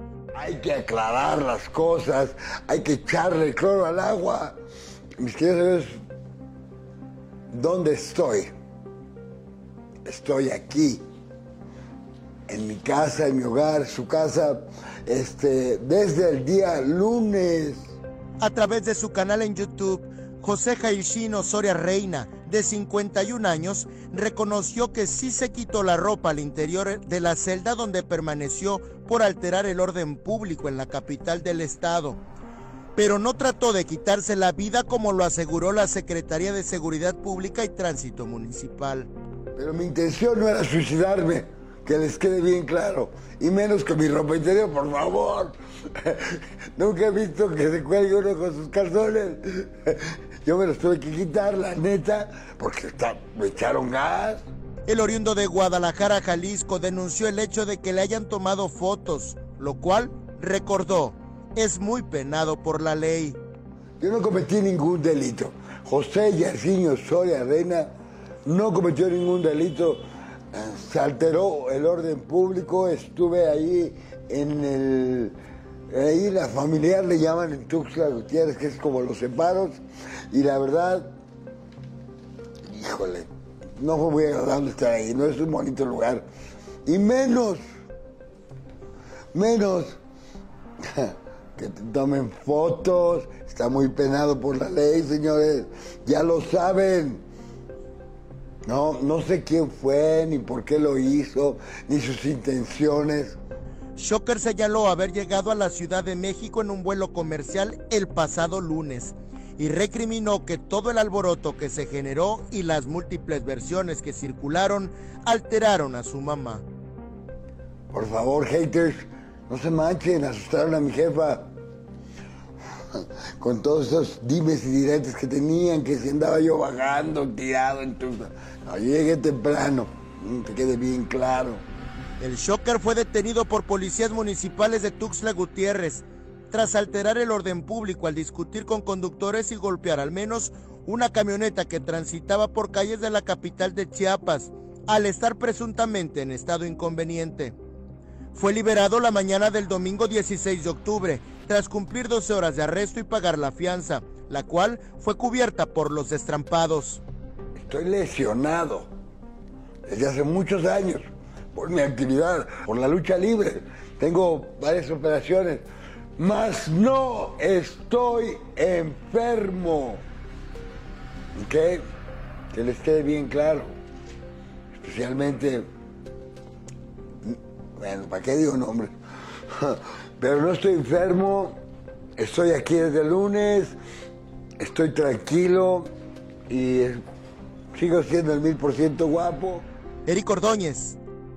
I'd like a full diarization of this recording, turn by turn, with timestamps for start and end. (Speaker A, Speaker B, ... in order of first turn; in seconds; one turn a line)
Speaker A: 0.3-4.5
Speaker A: 5.2-5.9
Speaker A: 7.5-8.5
Speaker A: 10.0-11.0
Speaker A: 12.5-17.9
Speaker B: 18.4-32.2
Speaker B: 33.0-39.1
Speaker A: 39.5-54.5
Speaker B: 54.9-63.4
Speaker A: 64.0-67.9
Speaker A: 68.4-75.3
Speaker A: 75.9-81.1
Speaker A: 82.7-86.2
Speaker A: 86.8-87.6
Speaker A: 89.3-90.0
Speaker A: 90.8-97.2
Speaker A: 98.7-103.4
Speaker B: 104.0-116.6
Speaker A: 117.9-121.5
Speaker A: 122.9-131.6
Speaker B: 132.2-147.5
Speaker B: 148.3-157.0
Speaker A: 157.6-158.9
Speaker A: 159.9-165.7
Speaker A: 166.2-170.0
Speaker A: 171.3-171.8
Speaker A: 172.5-173.7
Speaker A: 174.7-175.7
Speaker A: 177.2-178.9
Speaker A: 179.5-181.6
Speaker A: 182.2-183.7
Speaker A: 184.6-185.9
Speaker A: 186.5-187.0
Speaker A: 187.7-189.7
Speaker B: 190.1-191.0